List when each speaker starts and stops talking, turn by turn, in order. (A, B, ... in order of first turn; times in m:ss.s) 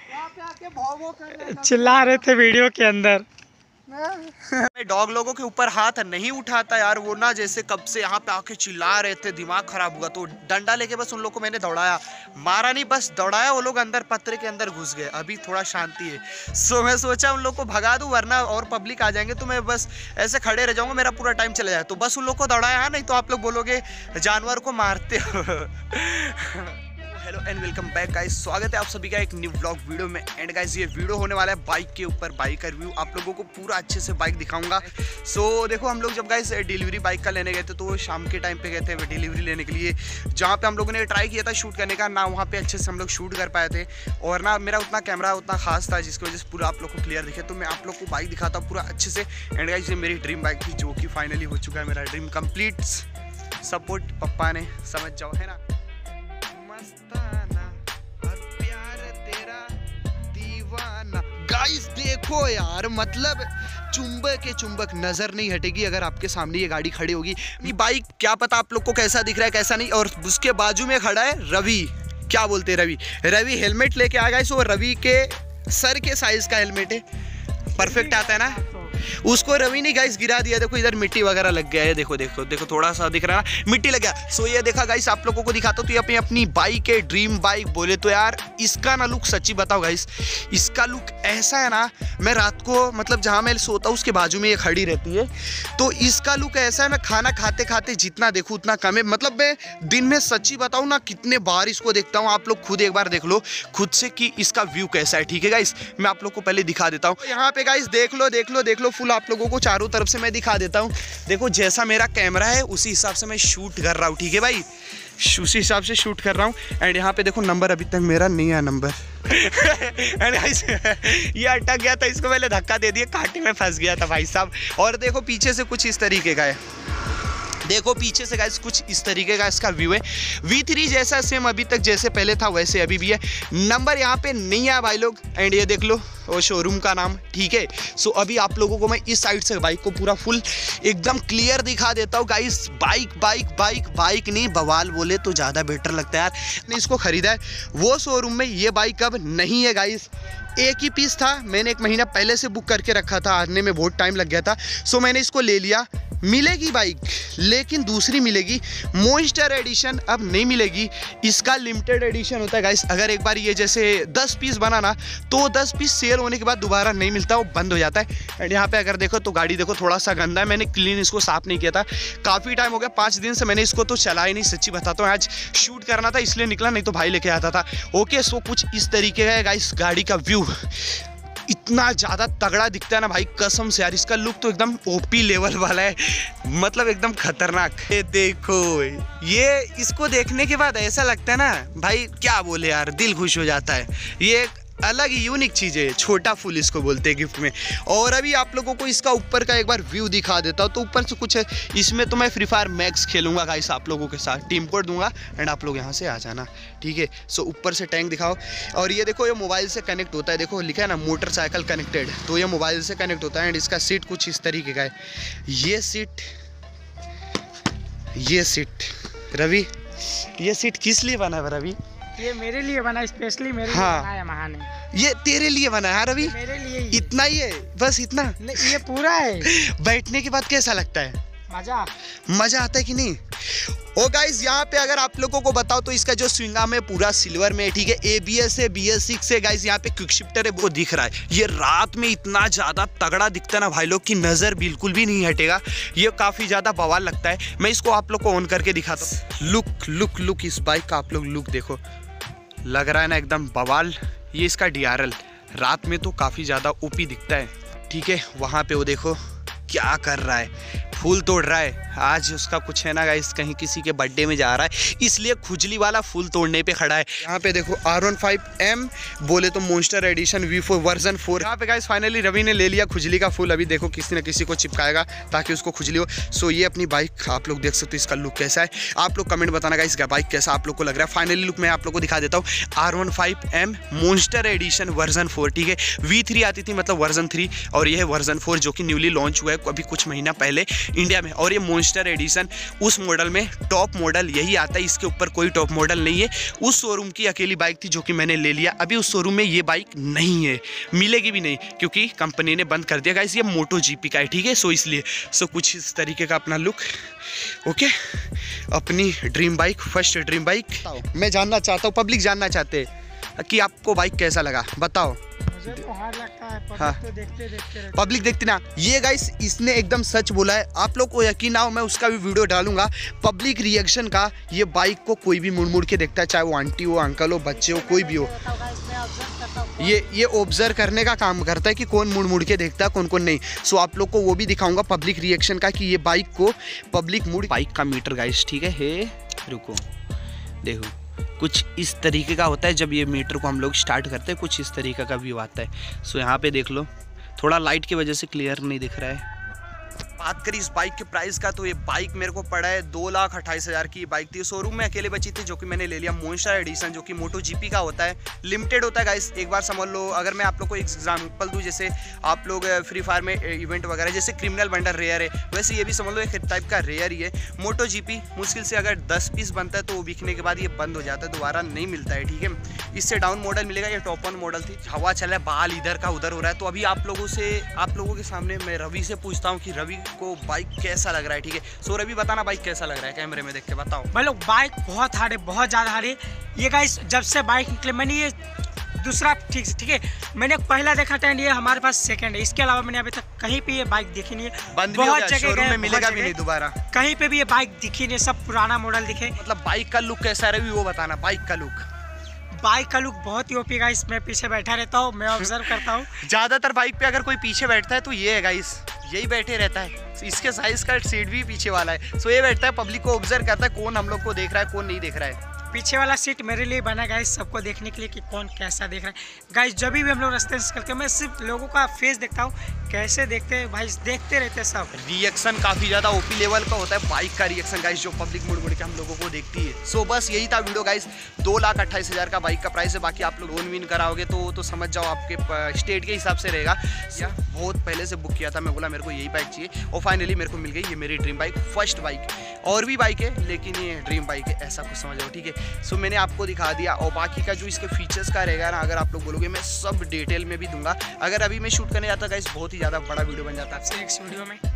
0:00.1-0:02.1 A
0:01.3-0:03.2 B
0:03.9-0:53.1 A
0:53.6-0:55.6 A
0:56.5-0:59.8 A
1:00.3-1:17.0 A
1:17.7-1:18.9 B
1:17.8-2:06.6 A
2:07.6-3:36.3 A
3:38.1-3:41.8 A
3:42.2-3:44.7 B
3:43.7-3:44.1 A
3:44.9-3:46.4 A
3:46.2-3:47.1 B
3:46.9-3:48.8 A
3:48.4-3:49.5 B
3:49.4-3:51.2 A
3:51.5-3:51.9 B
3:52.3-4:11.8 A
4:12.6-5:15.8 A
5:15.5-5:18.2 B
5:17.9-5:28.3 A
5:27.5-5:30.0 B
5:29.8-5:39.8 A
5:40.6-5:49.2 A
5:50.2-6:24.1 A
6:24.1-6:28.4 B
6:29.0-6:36.4 B
6:34.7-6:36.8 A
6:36.9-6:39.4 B
6:39.4-6:41.9 A
6:42.6-6:46.2 B
6:45.4-6:55.4 A
6:55.7-7:04.9 B
7:04.9-7:33.8 A
7:33.8-7:34.6 B